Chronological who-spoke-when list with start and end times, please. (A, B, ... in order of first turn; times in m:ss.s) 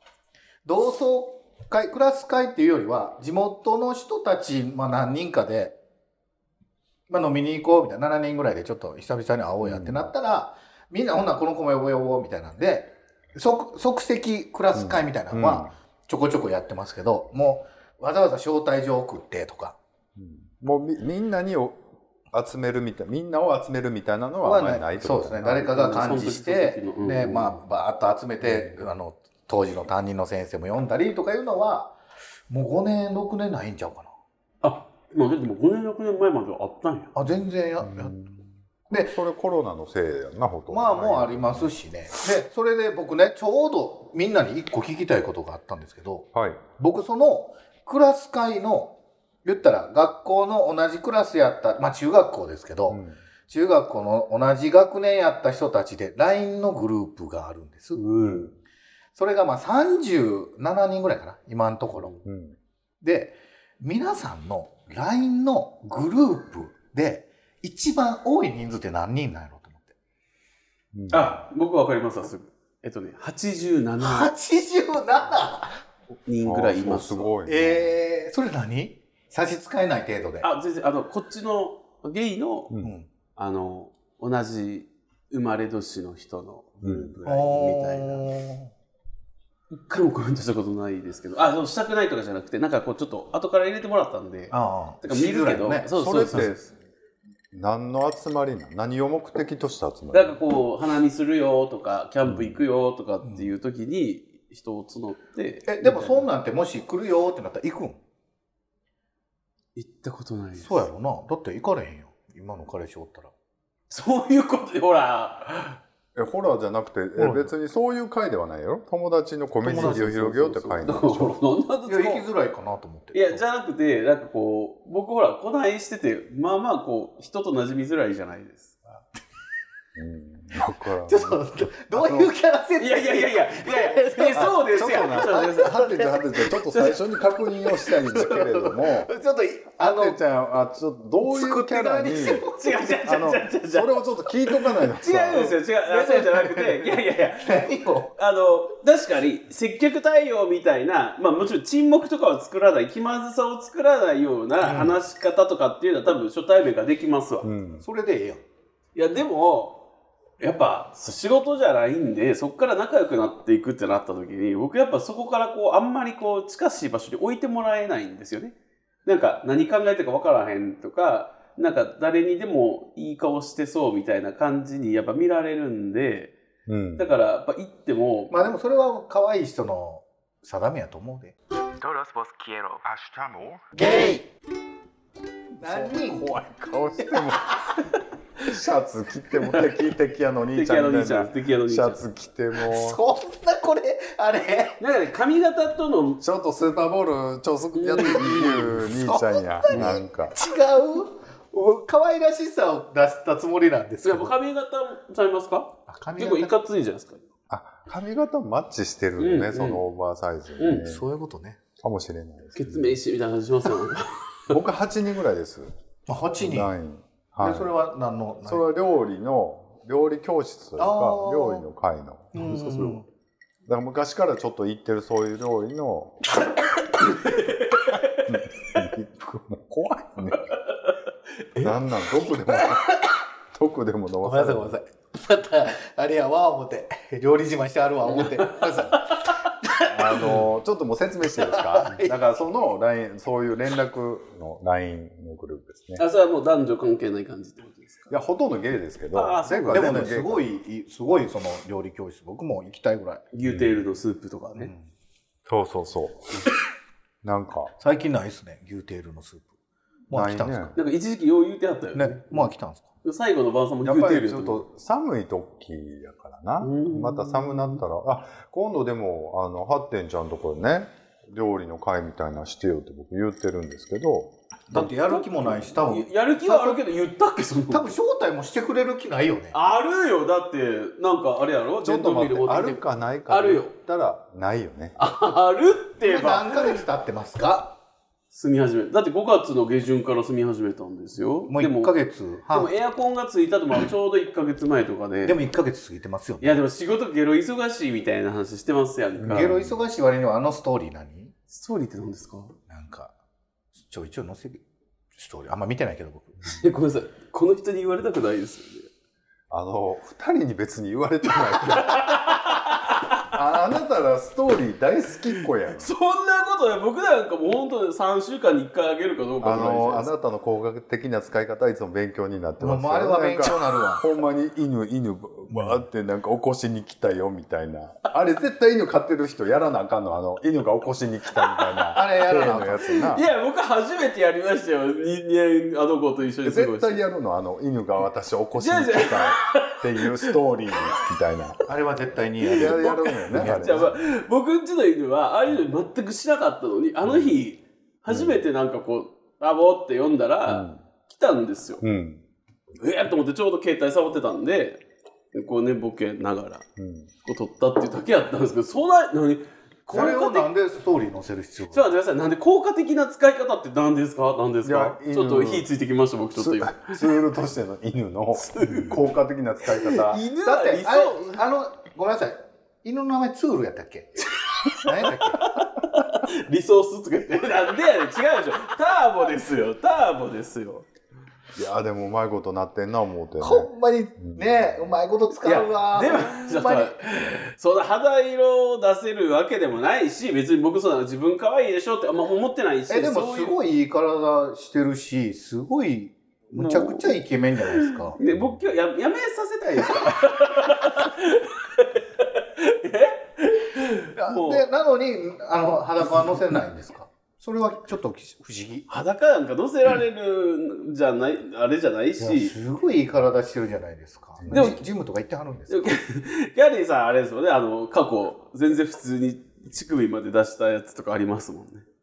0:00.6-0:05.8 A
0:07.1-0:19.8 A
0:09.6-0:10.1 B
0:14.8-0:15.7 B
0:20.2-0:25.8 B
0:24.4-0:32.0 A
0:25.7-0:27.6 C
0:28.4-0:28.8 B
0:32.5-0:34.1 A
0:34.6-0:37.2 C
0:37.2-0:38.2 A
0:37.8-0:38.5 B
0:38.9-0:39.2 A
0:39.0-0:41.7 B
0:40.7-0:58.1 A
0:46.4-0:46.6 B
0:52.9-0:53.2 B
0:58.0-0:58.5 C
0:58.2-0:58.5 B
0:59.2-1:02.1 A
1:02.0-1:02.2 C
1:02.2-1:02.6 B
1:03.0-1:09.9 A
1:10.9-1:11.4 B
1:11.1-1:14.3 C
1:14.0-1:15.8 A
1:16.3-1:17.3 C
1:16.4-1:17.9 B
1:17.5-1:20.5 A
1:20.4-1:22.7 C
1:22.8-1:23.1 A
1:23.4-1:28.3 C
1:26.8-1:27.1 B
1:27.2-1:28.7 A
1:29.7-1:36.7 C
1:34.5-1:35.9 A
1:35.9-1:36.6 B
1:37.5-1:40.4 B
1:40.1-1:46.3 C
1:42.2-1:42.6 B
1:43.2-1:43.5 A
1:45.7-1:48.0 A
1:49.8-1:50.8 C
1:50.6-1:53.3 A
1:53.9-1:55.8 C
1:56.2-2:01.4 B
1:57.2-1:57.5 A
1:59.6-2:00.5 A
1:59.8-2:02.2 C
2:01.9-2:03.4 A
2:03.1-2:08.9 C
2:10.0-2:12.3 B
2:11.1-2:16.6 A
2:12.8-2:15.8 C
2:14.4-2:19.1 B
2:16.7-2:17.0 C
2:17.7-2:20.2 A
2:19.8-2:22.5 B
2:21.2-2:23.0 A
2:22.5-2:24.0 C
2:23.0-2:25.5 B
2:25.0-2:37.5 C
2:25.3-2:28.1 A
2:34.6-2:35.0 A
2:37.4-2:37.8 B
2:37.8-2:38.4 A
2:39.0-2:39.8 C
2:40.4-2:56.3 C
2:56.7-2:57.1 B
2:57.0-2:58.4 C
2:58.3-3:01.4 A
3:01.8-3:02.8 C
3:02.8-3:03.7 B
3:03.8-3:04.2 A
3:05.6-3:13.0 B
3:05.6-3:06.4 A
3:07.0-3:07.3 A
3:10.6-3:12.1 C
3:12.6-3:14.8 A
3:14.8-3:16.2 C
3:16.2-3:20.4 B
3:17.8-3:18.7 C
3:18.1-3:24.4 A
3:19.7-3:20.0 C
3:24.0-3:27.3 C
3:25.9-3:26.5 A
3:27.5-3:31.0 B
3:29.2-3:29.8 C
3:30.6-3:30.8 C
3:30.8-3:31.6 A
3:31.8-3:33.0 B
3:32.6-3:34.6 C
3:34.5-3:35.7 B
3:36.1-3:36.7 A
3:36.4-3:37.7 B
3:37.4-3:38.6 A
3:38.4-3:43.0 B
3:40.8-3:41.7 A
3:42.3-3:43.1 A
3:43.7-3:46.2 B
3:47.0-3:48.3 C
3:48.2-3:50.5 B
3:51.6-3:54.8 B
3:54.2-4:00.4 A
3:58.1-3:59.5 C
3:59.9-4:06.0 B
4:01.3-4:02.2 A
4:06.0-4:08.2 C
4:08.1-4:10.5 B
4:09.1-4:10.0 C
4:09.7-4:13.2 A
4:13.3-4:14.7 C
4:13.4-4:13.8 B
4:14.6-4:14.9 A
4:15.5-4:16.5 B
4:17.2-4:17.7 B
4:17.8-4:19.5 A
4:20.1-4:20.8 A
4:20.1-4:20.7 B
4:20.8-4:22.5 C
4:22.0-4:22.9 A
4:23.0-4:24.6 C
4:23.8-4:34.3 B
4:26.6-4:27.8 C
4:34.7-4:36.8 A
4:34.7-4:37.9 C
4:37.7-4:39.6 A
4:39.5-4:43.8 C
4:41.8-4:45.0 B
4:45.0-4:46.8 C
4:46.0-4:47.8 A
4:48.3-4:51.9 C
4:51.5-4:52.8 A
4:52.5-4:55.4 C
4:55.2-4:56.6 A
4:56.4-4:59.6 C
4:59.2-4:59.8 B
4:59.3-5:01.3 A
5:01.5-5:02.6 C
5:02.7-5:03.1 A
5:03.8-5:04.6 A
5:05.2-5:06.4 A
5:06.4-5:08.9 C
5:09.5-5:12.2 B
5:11.6-5:13.2 C
5:13.2-5:15.9 B
5:15.7-5:20.1 C
5:19.4-5:33.3 B
5:22.6-5:24.1 A
5:25.5-5:25.8 A
5:31.5-5:37.0 C
5:31.9-5:33.0 A
5:36.4-5:41.6 B
5:38.6-5:40.4 C
5:41.7-5:43.9 A
5:42.4-5:51.8 C
5:42.6-5:43.9 B
5:47.1-5:47.3 B
5:48.1-5:48.5 B
5:50.5-5:50.8 B
5:51.8-5:52.2 B
5:52.8-5:54.8 C
5:55.3-5:56.7 C
5:56.8-5:57.1 B
5:57.2-6:00.5 C
5:59.9-6:01.9 A
6:01.7-6:07.1 C
6:04.6-6:05.7 B
6:06.4-6:10.2 B
6:08.4-6:09.0 C
6:09.6-6:11.4 C
6:10.4-6:15.4 A
6:14.7-6:20.9 C
6:21.6-6:24.9 B
6:23.4-6:27.0 A
6:25.4-6:33.6 C
6:32.9-6:38.2 A
6:36.6-6:44.6 C
6:38.3-6:38.6 B
6:44.2-6:48.9 A
6:48.9-6:52.6 C
6:52.2-6:55.9 A
6:54.4-6:54.7 B
6:54.5-6:54.8 C
6:55.7-7:01.8 C